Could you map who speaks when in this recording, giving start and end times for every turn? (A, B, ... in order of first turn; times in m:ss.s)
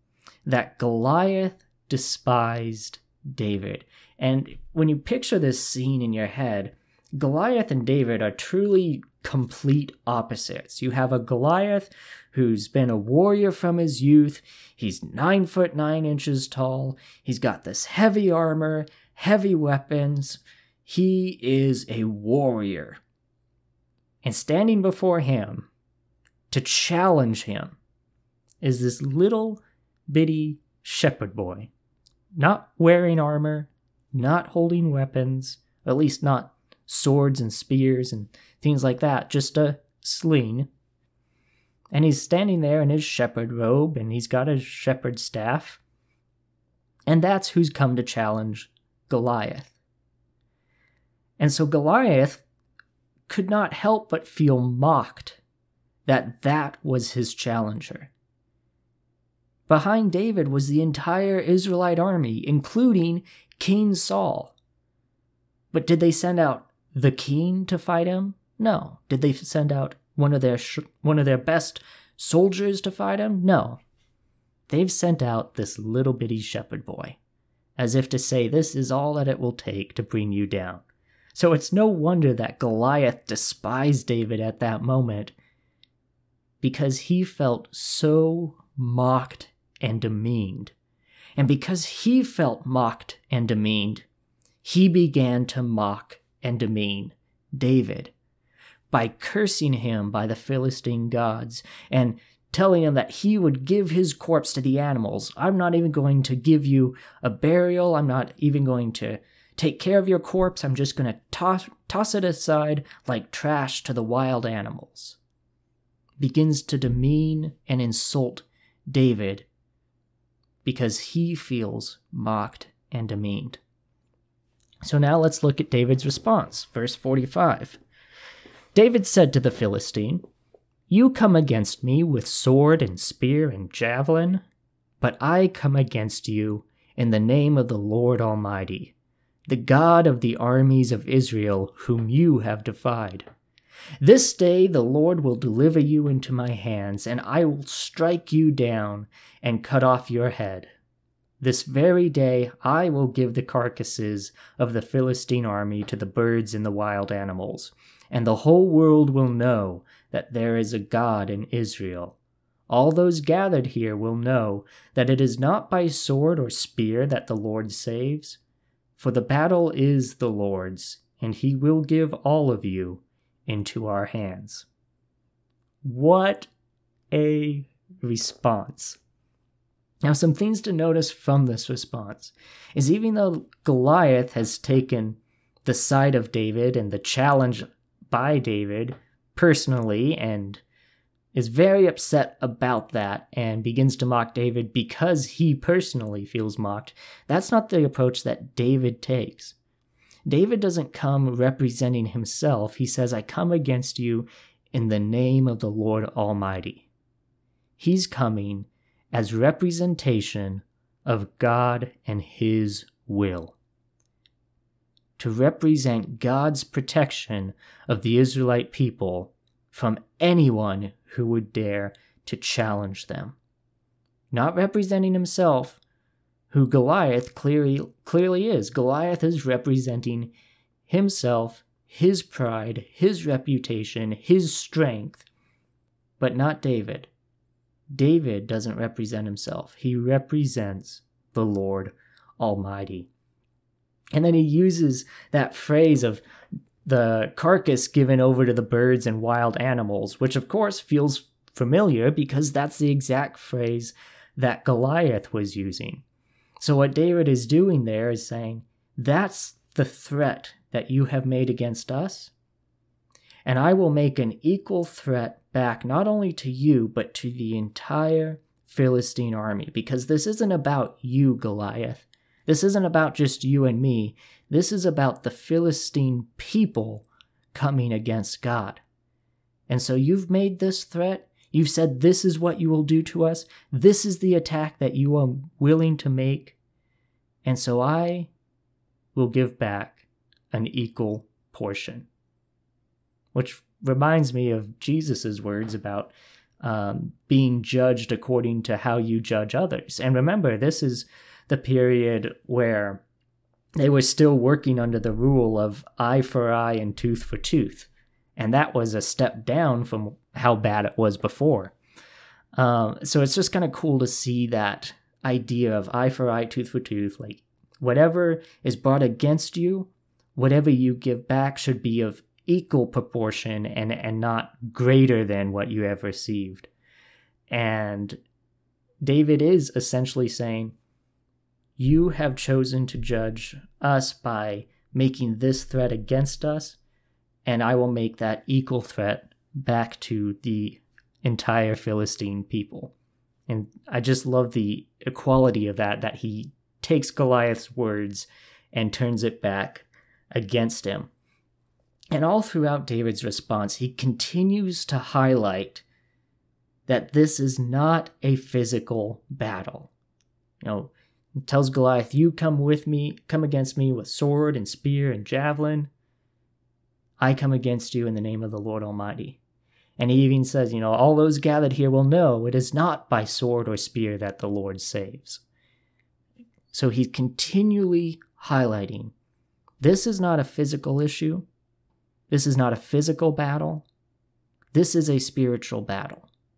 0:00.4-0:23.0 A
0:24.2-0:25.7 A
0:26.5-0:27.8 A
0:28.6-0:31.7 A
0:32.4-0:40.7 A
0:41.9-0:45.8 A
0:47.1-0:49.8 A
0:51.4-0:52.4 A
0:53.3-0:55.4 A
0:56.1-0:58.1 A
0:59.7-1:04.5 A
1:05.7-1:13.8 A
1:14.7-1:17.2 A
1:17.8-1:25.3 A
1:26.6-1:30.7 A
1:31.4-1:34.0 A
1:34.6-1:38.1 A
1:38.9-1:55.2 A
1:56.2-1:59.5 A
2:00.6-2:03.6 A
2:04.8-2:07.8 A
2:08.7-2:10.2 A
2:10.9-2:14.4 A
2:15.0-2:18.9 A
2:19.5-2:23.3 A
2:24.0-2:30.7 A
2:31.4-2:42.2 A
2:42.7-2:48.4 A
2:49.0-2:54.7 A
2:55.8-2:56.5 A
2:57.1-2:59.0 A
3:00.0-3:10.6 A
3:11.3-3:19.6 A
3:20.3-3:26.9 A
3:27.8-3:33.6 A
3:35.2-3:43.4 A
3:44.3-3:45.8 A
3:46.5-3:50.3 A
3:50.9-3:55.3 A
3:56.2-3:57.1 A
3:57.9-4:03.1 A
4:04.1-4:06.2 A
4:06.8-4:16.0 A
4:16.6-4:22.3 A
4:23.5-4:38.8 A
4:39.7-4:46.6 A
4:47.4-4:48.3 A
4:49.2-4:52.1 A
4:53.3-5:03.0 A
5:03.8-5:11.7 A
5:12.6-5:26.7 A
5:27.5-5:28.2 A
5:29.0-5:30.7 A
5:31.8-5:36.8 A
5:37.4-5:42.9 A
5:43.5-5:51.1 A
5:52.1-5:55.8 A
5:56.9-5:59.9 A
6:00.6-6:00.9 A
6:01.4-6:05.9 A
6:07.2-6:09.4 A
6:10.0-6:15.4 A
6:16.7-6:19.1 A
6:19.8-6:21.5 A
6:22.3-6:23.9 A
6:24.7-6:26.3 A